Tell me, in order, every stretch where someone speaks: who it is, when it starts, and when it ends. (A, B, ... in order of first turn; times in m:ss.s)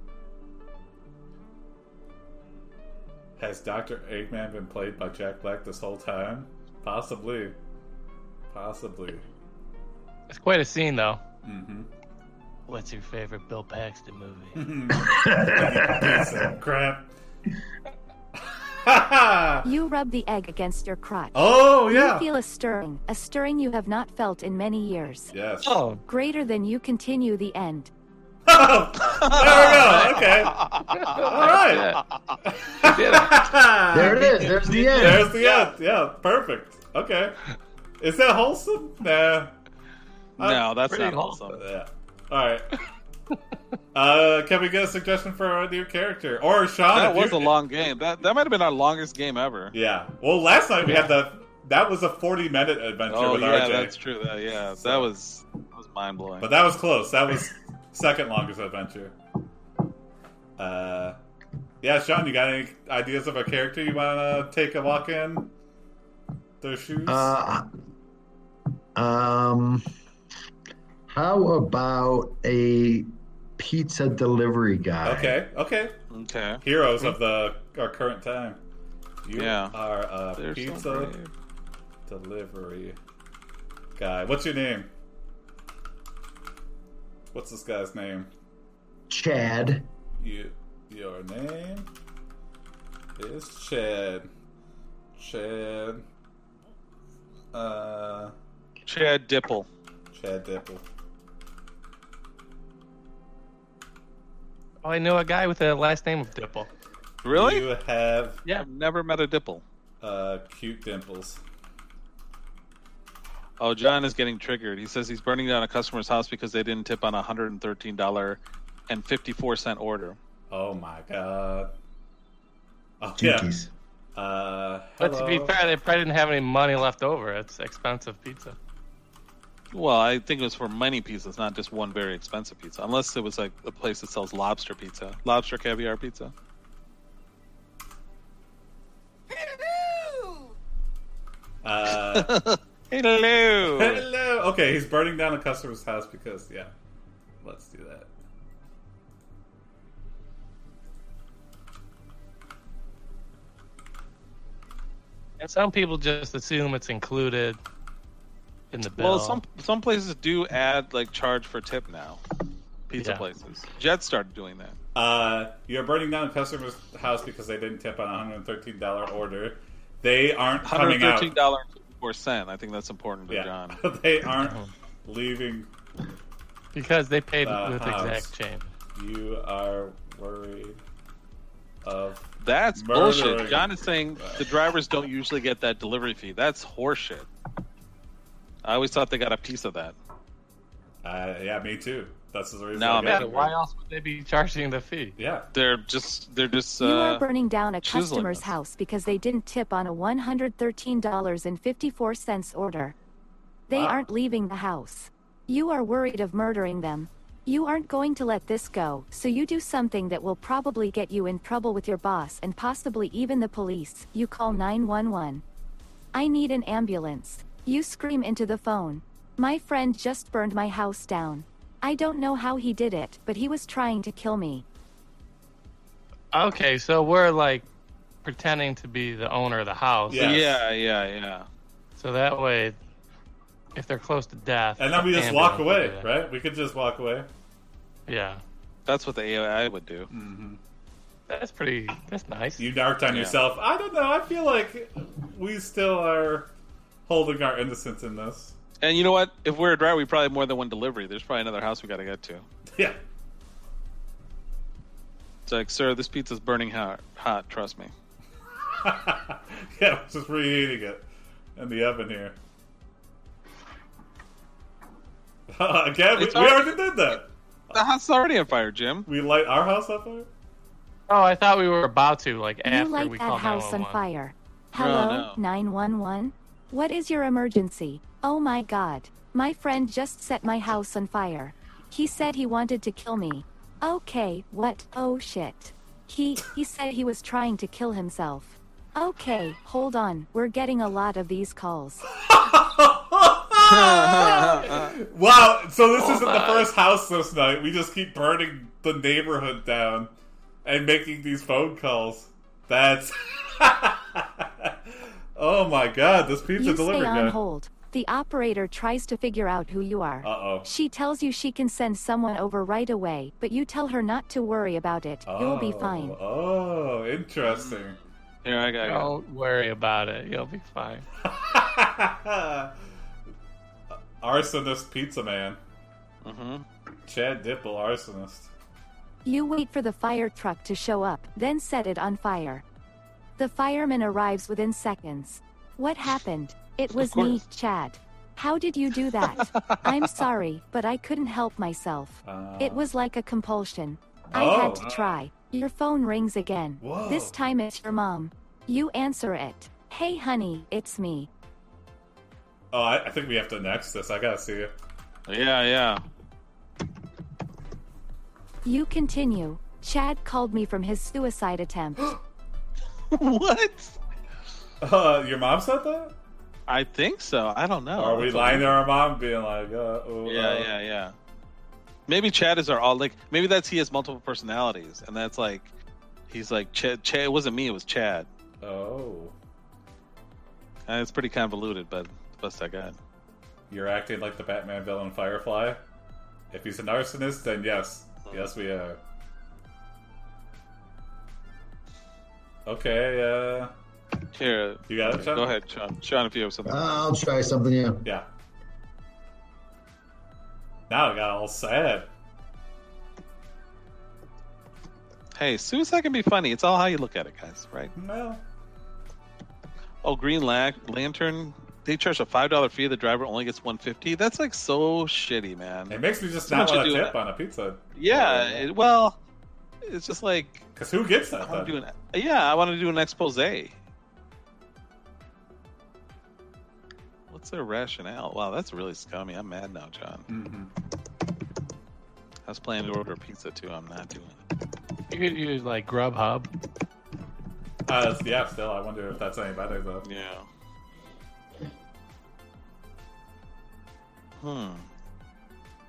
0:03.4-0:07.6 A
0:08.5-0:09.2 A
0:10.3-0:11.2 B
0:11.4-0:11.9 A
0:12.7-0:14.6 B
0:14.5-0:17.1 A
0:14.9-0:16.5 C
0:18.4-0:19.7 A
0:19.6-0:25.3 D
0:21.3-0:22.3 A
0:25.3-0:25.9 A
0:25.6-0:26.0 B
0:26.0-0:27.9 D
0:28.4-0:37.4 A
0:29.1-0:31.8 E
0:29.4-0:32.0 B
0:32.8-0:33.4 B
0:33.9-0:35.4 C
0:34.0-0:34.3 B
0:35.4-0:35.7 E
0:38.0-0:39.5 A
0:40.4-0:40.7 A
0:40.4-0:41.6 E
0:40.9-0:41.4 B
0:41.5-0:42.8 A
0:43.9-0:47.5 A
0:46.9-0:49.7 E
0:49.7-0:53.9 A
0:53.1-0:56.5 E
0:54.8-0:55.1 A
0:56.4-0:59.2 A
1:00.6-1:01.2 A
1:01.8-1:05.5 A
1:06.6-1:07.4 A
1:07.0-1:07.7 C
1:08.9-1:09.8 C
1:11.1-1:15.4 C
1:15.0-1:16.0 A
1:16.1-1:16.6 E
1:16.6-1:18.6 A
1:19.2-1:21.1 A
1:19.3-1:19.8 E
1:20.4-1:21.3 E
1:22.0-1:23.0 A
1:24.0-1:24.9 A
1:27.3-1:28.3 A
1:29.1-1:29.9 C
1:30.2-1:31.9 A
1:33.2-1:34.3 A
1:35.2-1:36.0 A
1:37.5-1:38.3 A
1:38.8-1:39.7 E
1:40.1-1:40.8 A
1:44.8-1:46.7 B
1:47.2-1:47.7 E
1:47.3-1:48.4 A
1:48.6-1:49.6 E
1:50.0-1:51.4 A
1:53.6-2:00.2 E
2:00.5-2:01.7 A
2:03.0-2:03.5 A
2:03.2-2:03.7 C
2:04.1-2:05.6 A
2:05.0-2:08.6 B
2:09.7-2:16.3 E
2:21.6-2:22.4 A
2:21.9-2:24.0 E
2:23.6-2:26.7 A
2:27.4-2:28.1 A
2:35.4-2:37.6 B
2:38.7-2:39.4 B
2:39.0-2:42.2 E
2:42.9-2:44.8 E
2:43.0-2:43.2 B
2:44.9-2:51.3 A
2:50.6-2:53.8 E
2:53.3-2:55.7 A
2:54.4-2:54.7 B
2:56.7-2:58.7 B
2:57.4-2:58.3 A
2:58.9-3:00.8 A
3:01.8-3:04.5 A
3:02.4-3:07.3 E
3:08.6-3:09.9 E
3:11.0-3:13.5 A
3:12.7-3:13.5 E
3:13.0-3:15.1 B
3:15.2-3:15.5 A
3:15.5-3:17.2 E
3:16.8-3:22.9 D
3:17.8-3:18.5 E
3:23.7-3:35.4 D
3:23.7-3:24.0 A
3:36.1-3:44.6 D
3:46.3-3:47.7 B
3:48.2-3:50.4 B
3:50.1-3:50.6 A
3:50.1-3:51.4 E
3:52.0-3:52.8 B
3:53.7-3:56.1 B
3:54.8-3:57.3 A
3:58.1-3:58.4 B
3:58.8-4:00.1 E
4:00.1-4:00.6 A
4:01.3-4:02.6 B
4:02.6-4:06.5 A
4:03.1-4:03.4 E
4:07.1-4:08.5 A
4:08.8-4:12.4 E
4:15.5-4:17.9 E
4:18.8-4:22.4 A
4:25.5-4:27.3 A
4:26.1-4:26.7 E
4:27.7-4:29.1 E
4:29.1-4:30.3 A
4:31.1-4:34.0 B
4:32.6-4:52.0 D
4:34.8-4:35.4 E
4:52.2-5:00.1 A
4:53.6-4:54.9 E
4:55.9-4:56.7 B
5:00.6-5:07.4 A
5:06.6-5:16.2 D
5:10.2-5:10.7 A
5:15.3-5:18.0 A
5:17.4-5:19.1 E
5:18.8-5:21.0 B
5:21.2-5:22.7 A
5:24.2-5:25.6 A
5:26.2-5:26.6 E
5:27.1-5:28.5 A
5:29.2-5:32.6 D
5:33.4-5:51.3 D
5:37.0-5:37.4 E
5:39.3-5:39.9 E
5:42.2-5:42.8 A
5:44.3-5:44.9 A
5:44.8-5:45.1 E
5:46.8-5:47.3 A
5:52.7-5:54.7 A
5:55.3-5:56.0 E
5:58.6-6:02.2 D
6:03.1-6:04.0 E
6:04.8-6:06.1 A
6:06.7-6:08.8 E
6:08.0-6:10.7 A
6:10.2-6:11.1 E
6:12.1-6:15.7 E
6:16.3-6:18.3 E
6:18.6-6:19.3 A
6:20.9-6:23.0 E
6:23.7-6:25.8 A
6:26.5-6:29.0 A
6:32.6-6:33.7 A
6:34.3-6:37.1 E
6:34.9-6:35.5 A
6:36.6-6:38.1 C
6:40.9-6:42.1 A
6:45.3-6:47.9 E
6:47.9-6:48.4 A
6:50.0-6:57.2 E
6:55.9-6:58.7 A
6:58.0-6:59.2 E
6:59.8-7:00.7 E
7:00.7-7:01.7 A
7:01.4-7:03.7 E
7:07.3-7:10.3 E
7:10.3-7:10.7 A
7:12.4-7:14.4 E
7:15.1-7:16.5 B
7:17.9-7:20.0 A
7:20.0-7:20.5 E
7:24.4-7:24.9 E